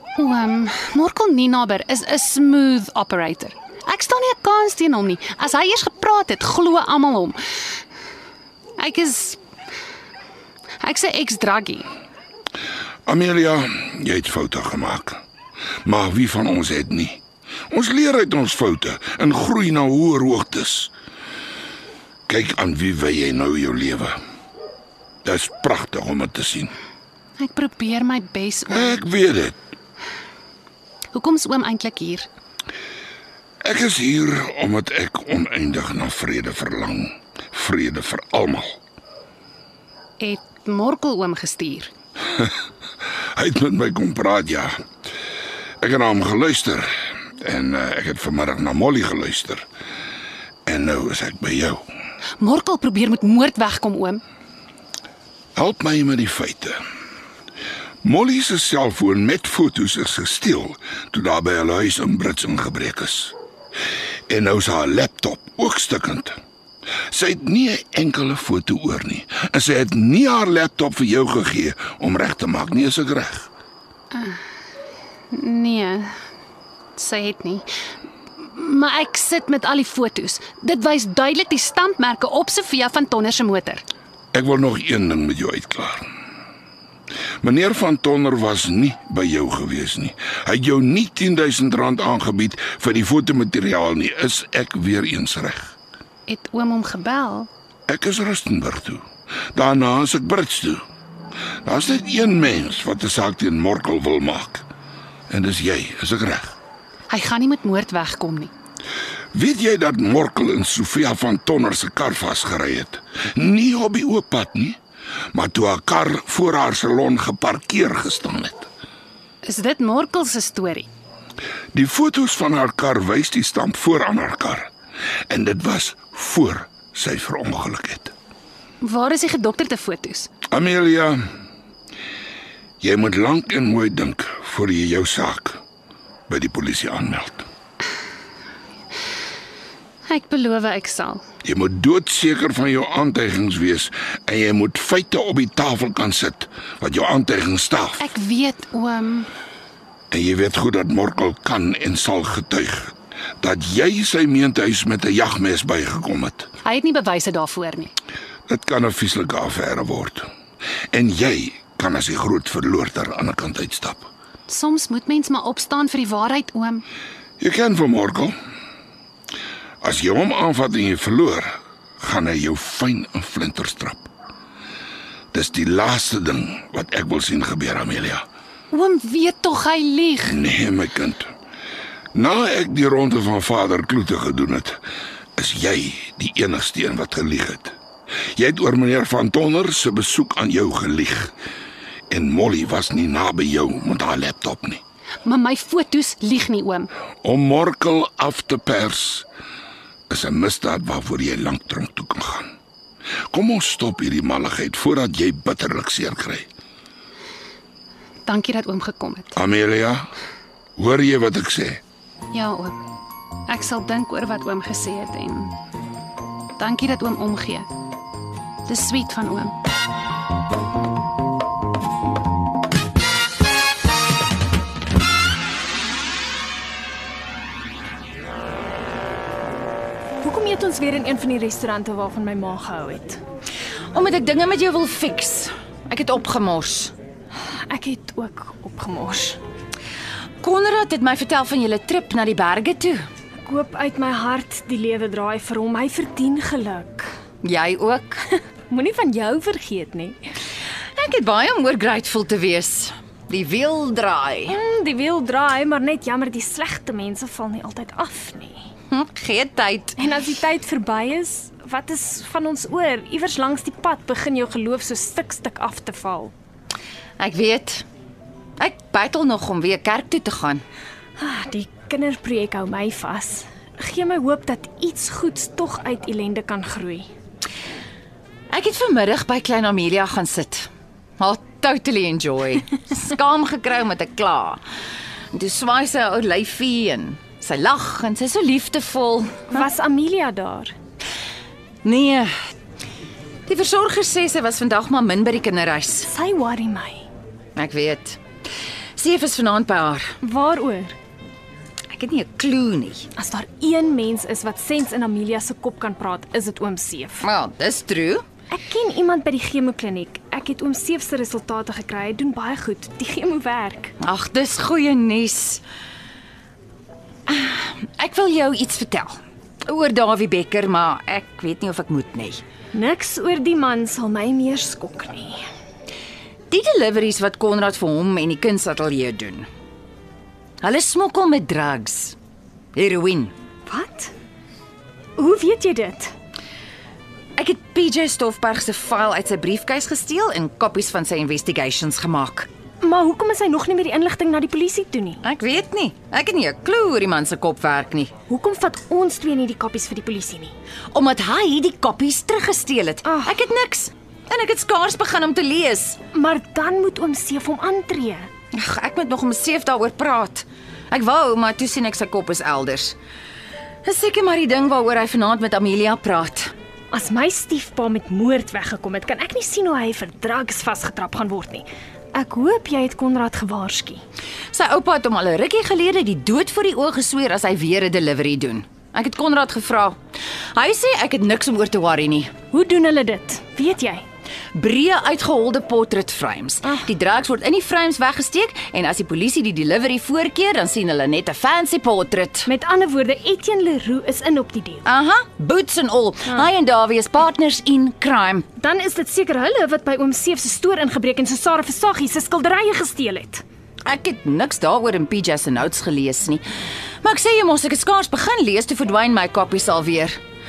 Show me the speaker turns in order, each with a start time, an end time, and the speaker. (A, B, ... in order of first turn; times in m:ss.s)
0:00.2-0:07.4 A
0:08.8-0:09.4 A
0:10.8-0:11.8 A
0:13.1-0:15.2 B
0:15.8-0:20.9 B
0:22.3-0:24.2 B
0:25.2-0:26.7 B
0:27.4-0:29.0 A
0:28.7-0:29.5 B
0:31.1-0:32.3 A
0:33.6-0:38.8 B
0:40.2-0:41.9 A
0:43.4-0:44.7 B
0:45.8-0:49.6 B
0:50.6-0:51.8 B
0:52.4-0:54.2 A
0:55.6-0:56.8 B
0:58.0-1:03.3 B
1:04.3-1:06.4 B
1:07.1-1:13.5 B
1:14.1-1:14.4 A
1:15.3-1:16.1 A
1:17.0-1:17.6 A
1:18.5-1:23.8 A
1:24.3-1:26.0 B
1:27.4-1:35.7 B
1:36.3-1:37.5 A
1:37.9-1:39.0 B
1:39.5-1:40.8 B
1:41.6-1:44.6 B
1:45.3-1:46.6 B
1:47.1-1:48.5 A
1:49.3-1:54.8 B
1:55.3-1:58.7 B
1:59.4-2:00.9 A
2:01.7-2:04.7 B
2:05.3-2:08.1 B
2:08.8-2:10.3 A
2:10.5-2:11.2 B
2:12.8-2:15.6 B
2:16.3-2:17.4 B
2:20.0-2:21.2 A
2:21.4-2:28.0 B
2:28.0-2:29.3 A
2:30.1-2:36.5 B
2:36.6-2:37.9 A
2:38.5-2:40.3 B
2:40.9-2:44.1 B
2:44.5-2:46.8 A
2:47.4-2:48.3 B
2:49.8-2:54.1 B
2:55.3-2:58.2 B
2:58.7-3:00.4 A
3:00.3-3:01.3 B
3:02.1-3:04.8 B
3:05.4-3:07.7 B
3:08.4-3:11.3 B
3:12.1-3:14.8 B
3:15.2-3:16.9 A
3:17.2-3:19.3 B
3:20.1-3:22.5 B
3:23.3-3:26.5 B
3:28.2-3:29.3 A
3:29.4-3:30.0 B
3:30.8-3:31.8 B
3:32.3-3:32.7 A
3:33.5-3:35.5 A
3:36.6-3:37.7 A
3:38.6-3:39.5 A
3:50.2-3:53.2 C
3:53.9-3:56.9 D
3:57.7-3:59.4 C
4:00.4-4:03.0 D
4:03.4-4:07.1 C
4:07.4-4:08.2 D
4:08.7-4:10.3 C
4:11.0-4:14.6 D
4:14.5-4:18.7 C
4:18.9-4:20.0 D
4:20.0-4:26.3 C
4:27.2-4:27.8 D
4:28.6-4:30.6 D
4:31.2-4:37.1 C
4:38.5-4:40.7 D
4:41.2-4:44.6 D
4:45.3-4:49.6 D
4:49.5-4:50.7 C
4:51.8-4:52.3 D
4:53.4-4:56.1 D
4:56.1-4:57.0 C
4:57.6-4:58.2 D
4:59.0-5:00.2 D
5:00.2-5:01.0 C
5:01.9-5:03.1 D
5:03.2-5:07.2 C
5:07.2-5:08.2 D
5:08.5-5:13.9 C
5:14.0-5:15.6 D
5:17.3-5:22.4 D
5:22.7-5:25.4 C
5:26.5-5:29.5 D
5:30.6-5:32.2 D
5:32.7-5:33.3 D
5:33.6-5:34.1 C
5:35.2-5:36.1 C
5:37.4-5:42.5 D
5:42.8-5:45.2 C
5:45.2-5:48.1 D
5:48.3-5:50.5 C
5:50.9-5:56.0 D
5:53.0-5:53.4 C
5:56.1-5:58.3 C
5:58.5-6:03.0 D
6:03.8-6:06.5 D
6:06.9-6:14.0 C
6:14.5-6:20.0 D
6:20.5-6:22.3 D
6:22.5-6:24.0 C
6:24.5-6:32.5 D
6:32.4-6:34.8 C
6:34.8-6:38.4 D
6:38.6-6:43.4 C
6:43.8-6:46.4 D
6:47.0-6:50.2 D